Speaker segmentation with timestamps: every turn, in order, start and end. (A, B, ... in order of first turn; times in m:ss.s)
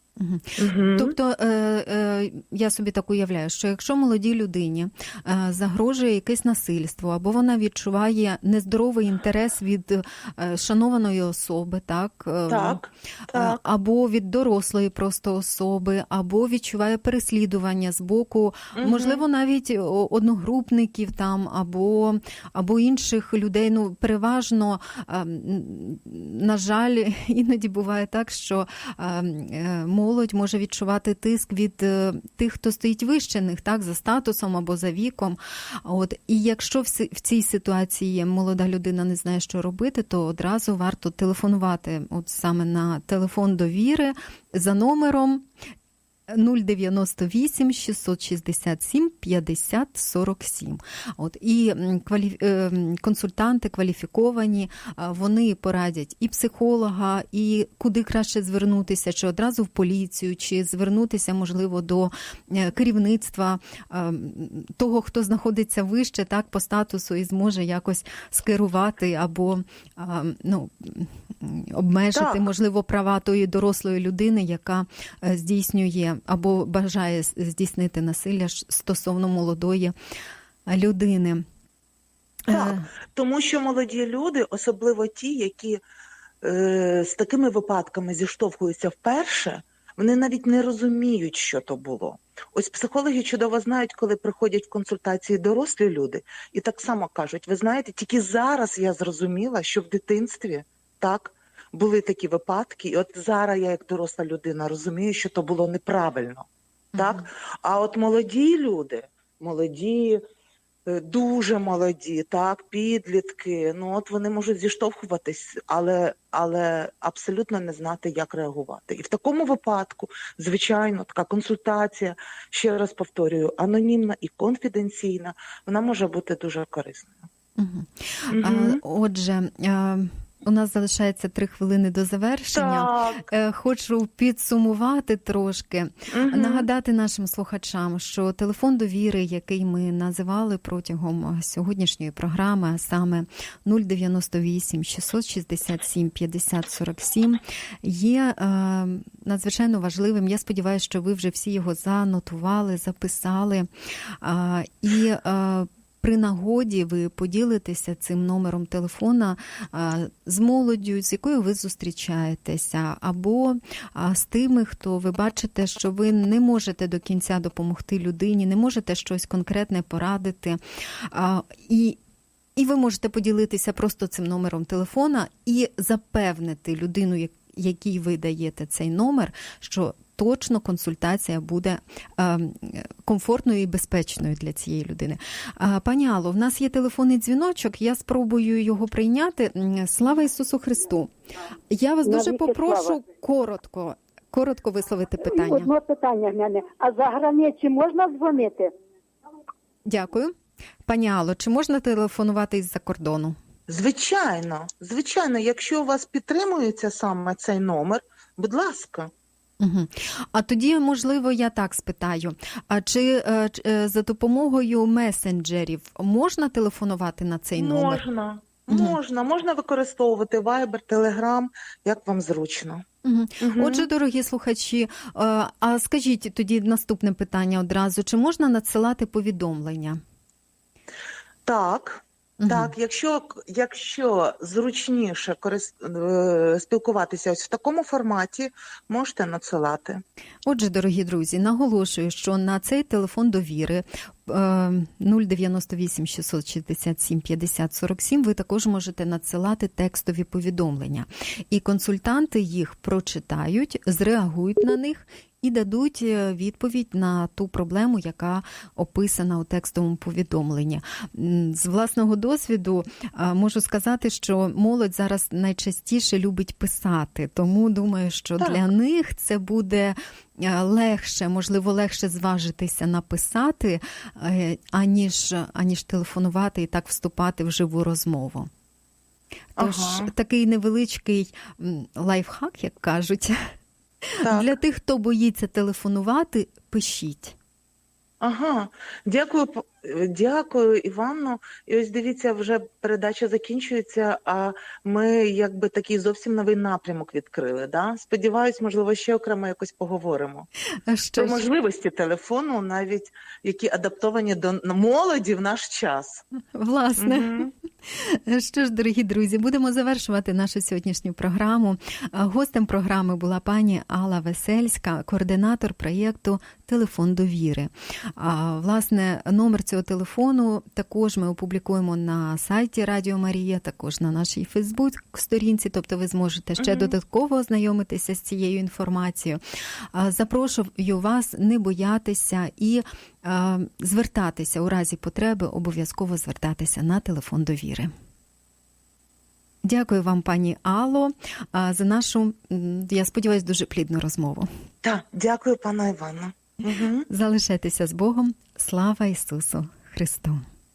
0:00.2-0:45.4 A
0:00.6-0:01.1 B
0:12.5-0:13.6 B
0:18.8-0:19.2 B
0:46.3-1:19.9 A
1:12.1-1:12.4 B
1:20.7-1:21.4 A
1:22.5-1:22.9 A
1:22.5-1:25.8 B
1:26.4-1:50.2 B
1:46.9-1:47.2 A
1:50.8-2:07.2 B
2:07.6-2:33.7 A
2:08.3-2:08.8 B
2:12.5-2:13.3 B
2:16.1-2:16.7 B
2:34.2-2:50.6 A
2:51.1-2:52.0 A
2:52.6-3:11.1 A
3:11.7-3:15.7 A
3:12.0-3:13.0 C
3:15.2-3:18.7 C
3:19.8-3:20.3 A
3:20.8-3:23.4 A
3:23.7-3:29.1 B
3:29.6-3:38.0 A
3:37.5-3:42.8 B
3:38.7-3:39.0 A
3:43.0-3:50.0 A
3:43.4-3:43.9 B
3:51.4-4:00.0 B
3:52.4-3:52.7 A
4:00.4-4:38.5 A
4:39.6-4:43.5 A
4:39.6-4:40.1 B
4:44.1-4:47.3 A
4:44.2-4:44.5 B
4:48.2-5:00.5 B
5:00.9-5:01.5 A
5:01.2-5:06.2 B
5:06.5-5:29.4 A
5:07.0-5:07.5 B
5:26.6-5:26.9 B
5:29.9-5:37.9 A
5:39.6-5:44.5 A
5:44.8-5:47.1 B
5:47.1-5:50.4 A